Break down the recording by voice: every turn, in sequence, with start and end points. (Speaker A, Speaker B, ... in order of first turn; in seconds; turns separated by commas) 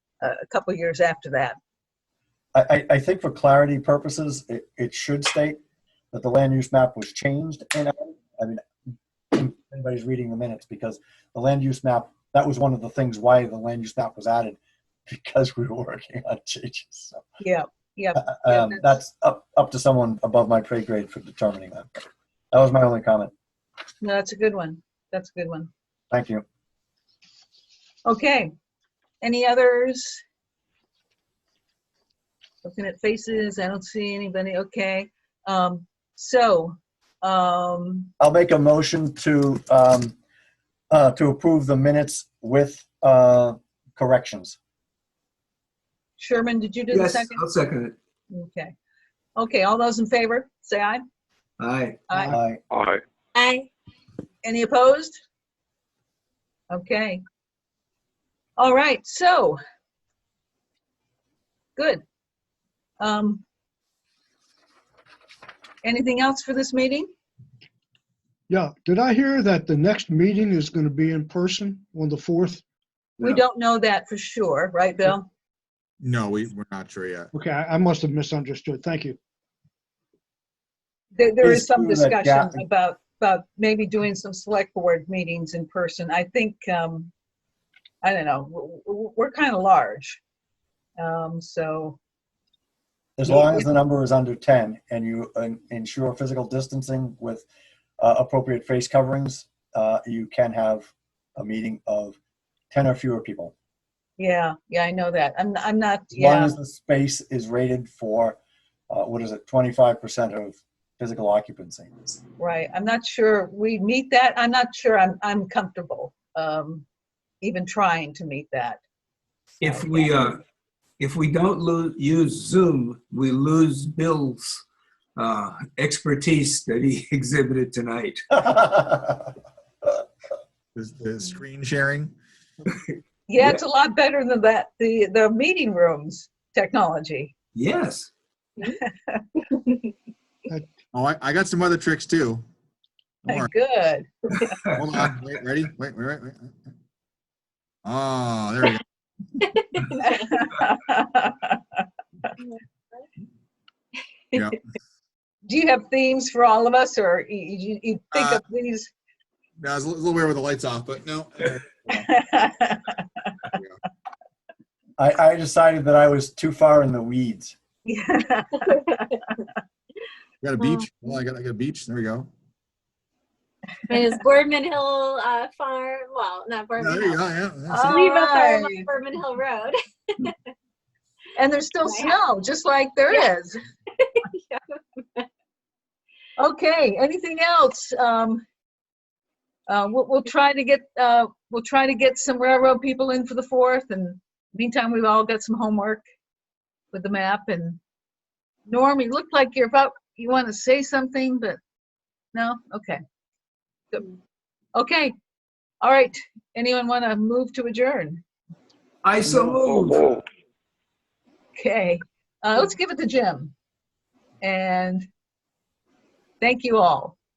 Speaker A: 0.2-1.6, Speaker B: 2.5-5.6, Speaker B: 6.1-8.6, Speaker B: 9.3-17.2, Speaker A: 17.4-18.9, Speaker B: 18.1-23.3, Speaker A: 24.0-25.7, Speaker B: 26.1-26.4, Speaker A: 28.1-28.5, Speaker A: 29.2-30.2, Speaker A: 32.6-38.1, Speaker B: 38.2-40.1, Speaker B: 40.9-44.6, Speaker A: 46.2-47.4, Speaker C: 46.9-47.9, Speaker A: 48.3-48.7, Speaker A: 49.4-51.0, Speaker C: 51.6-52.0, Speaker A: 52.1-52.3, Speaker B: 52.2-52.6, Speaker D: 53.3-53.7, Speaker A: 54.4-55.1, Speaker A: 56.7-57.2, Speaker A: 58.6-59.6, Speaker A: 61.8-62.0, Speaker A: 63.0-63.4, Speaker A: 65.8-67.1, Speaker E: 68.5-72.6, Speaker A: 73.2-75.3, Speaker F: 76.0-77.3, Speaker E: 77.3-79.2, Speaker A: 81.2-87.1, Speaker B: 81.4-82.6, Speaker A: 88.0-90.2, Speaker A: 91.0-92.0, Speaker B: 93.2-97.5, Speaker A: 93.3-93.7, Speaker B: 98.0-102.2, Speaker B: 102.7-103.5, Speaker A: 104.2-106.5, Speaker B: 106.1-108.4, Speaker B: 108.9-112.2, Speaker A: 112.4-116.8, Speaker A: 117.4-118.8, Speaker C: 119.6-120.4, Speaker A: 119.6-120.2, Speaker C: 121.0-124.6, Speaker C: 125.2-128.2, Speaker B: 128.3-129.3, Speaker F: 130.7-132.1, Speaker A: 133.3-137.3, Speaker C: 137.5-138.1, Speaker A: 138.6-139.2, Speaker F: 140.9-142.4, Speaker F: 143.2-143.5, Speaker A: 143.3-144.5, Speaker C: 144.6-145.1, Speaker F: 144.8-146.5, Speaker F: 147.8-148.8, Speaker A: 150.0-152.3, Speaker A: 155.5-158.9, Speaker F: 158.1-158.4, Speaker F: 159.6-162.1, Speaker A: 161.9-163.3, Speaker F: 163.5-163.8, Speaker B: 165.0-167.5, Speaker A: 167.8-169.1, Speaker F: 170.4-172.3, Speaker D: 170.6-170.9, Speaker D: 173.9-177.2, Speaker F: 176.8-178.0, Speaker A: 177.7-178.8, Speaker D: 177.8-180.3, Speaker A: 181.3-183.6, Speaker D: 181.8-182.2, Speaker D: 184.0-185.3, Speaker A: 186.4-188.4, Speaker A: 189.7-196.0, Speaker A: 196.9-197.8, Speaker A: 198.7-201.6, Speaker A: 202.3-203.0, Speaker A: 204.7-205.1, Speaker A: 205.8-208.2, Speaker C: 209.0-210.0, Speaker A: 211.6-213.5, Speaker A: 214.4-215.1, Speaker A: 216.4-217.2